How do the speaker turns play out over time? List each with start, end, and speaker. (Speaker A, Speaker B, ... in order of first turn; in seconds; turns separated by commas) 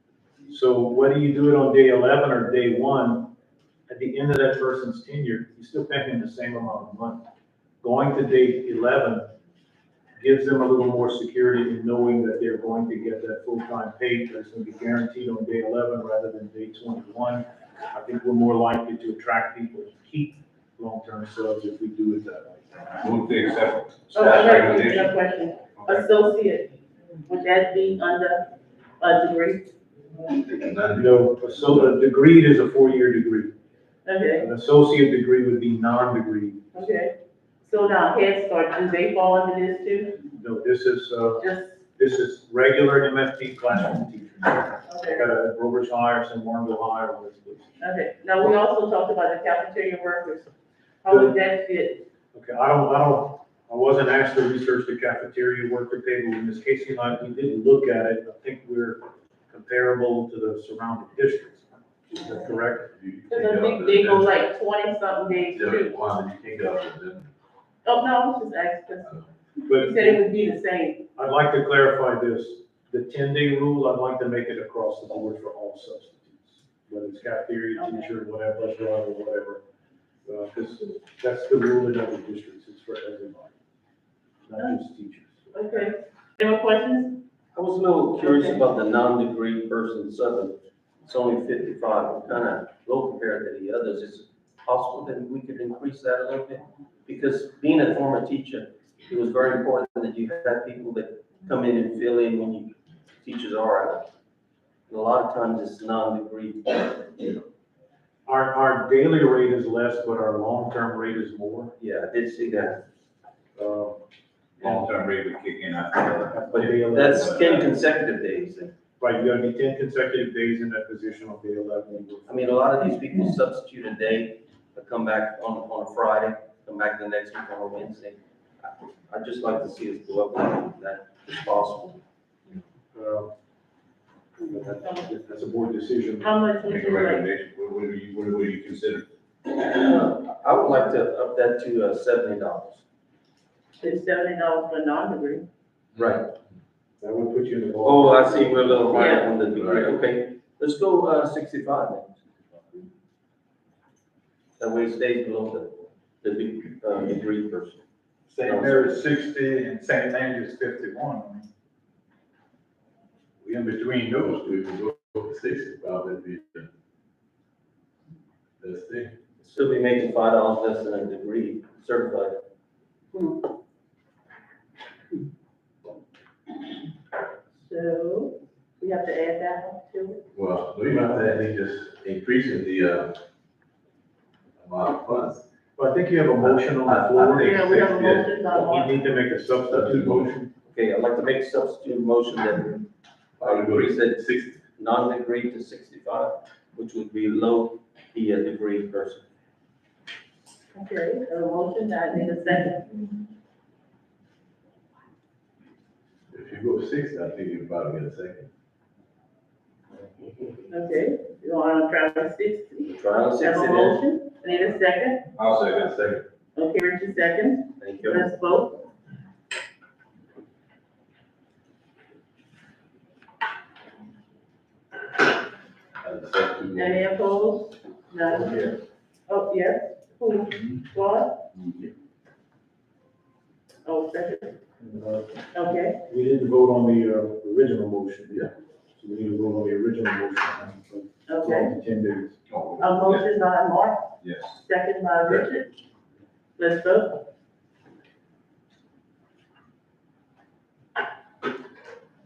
Speaker A: 0.5-3.3, Speaker A: 3.9-7.2, Speaker A: 7.8-9.3, Speaker A: 10.2-23.0, Speaker B: 23.0-25.1, Speaker C: 24.1-29.7, Speaker D: 30.4-31.7, Speaker A: 30.9-33.5, Speaker C: 34.0-34.5, Speaker A: 34.4-36.8, Speaker C: 36.7-40.2, Speaker A: 40.3-41.5, Speaker C: 41.4-41.7, Speaker A: 42.0-47.7, Speaker C: 44.9-45.3, Speaker C: 47.8-50.5, Speaker C: 51.0-52.1, Speaker A: 51.1-51.4, Speaker A: 52.3-62.9, Speaker D: 62.9-64.3, Speaker C: 63.3-66.0, Speaker D: 65.5-67.3, Speaker C: 67.8-69.1, Speaker C: 69.7-71.1, Speaker A: 69.7-70.2, Speaker A: 71.2-79.6, Speaker C: 77.8-78.1, Speaker A: 80.3-83.5, Speaker A: 84.5-85.9, Speaker C: 85.5-87.2, Speaker E: 87.5-104.1, Speaker C: 88.2-88.6, Speaker E: 104.9-107.4, Speaker A: 108.3-111.7, Speaker E: 111.8-112.8, Speaker A: 113.6-114.0, Speaker A: 114.6-114.9, Speaker B: 114.6-117.6, Speaker A: 116.3-117.6, Speaker E: 116.5-118.7, Speaker A: 119.0-122.6, Speaker E: 122.3-128.2, Speaker E: 128.7-132.0, Speaker A: 132.9-133.3, Speaker A: 134.5-136.3, Speaker C: 136.2-137.3, Speaker B: 136.6-139.1, Speaker E: 139.4-142.8, Speaker C: 143.8-145.5, Speaker E: 146.0-146.3, Speaker A: 147.0-149.0, Speaker E: 147.8-152.9, Speaker C: 148.9-149.3, Speaker D: 149.3-149.9, Speaker E: 154.6-157.8, Speaker A: 158.3-161.4, Speaker E: 158.4-159.0, Speaker A: 163.4-164.4, Speaker D: 164.2-166.7, Speaker D: 168.6-169.1, Speaker E: 169.4-172.4, Speaker C: 177.6-180.2, Speaker D: 180.3-183.2, Speaker A: 180.9-181.4, Speaker D: 184.6-185.4, Speaker A: 185.8-190.5, Speaker D: 186.4-188.2, Speaker C: 187.3-189.1, Speaker D: 189.7-190.3, Speaker E: 190.7-192.9, Speaker D: 193.4-194.6, Speaker E: 193.4-194.2, Speaker E: 194.8-199.2, Speaker C: 200.7-203.2, Speaker D: 206.3-208.5, Speaker C: 210.7-215.3, Speaker E: 212.9-214.0, Speaker B: 215.4-215.9, Speaker D: 215.6-216.2, Speaker C: 216.6-218.8, Speaker E: 217.8-218.3, Speaker D: 226.0-227.2, Speaker C: 226.8-231.4, Speaker D: 231.6-231.9, Speaker C: 233.8-234.6, Speaker A: 234.8-235.3, Speaker C: 235.5-236.0, Speaker A: 236.0-242.4, Speaker C: 241.3-241.7, Speaker D: 242.5-242.8, Speaker C: 242.8-245.7, Speaker B: 244.2-244.5, Speaker C: 246.6-247.2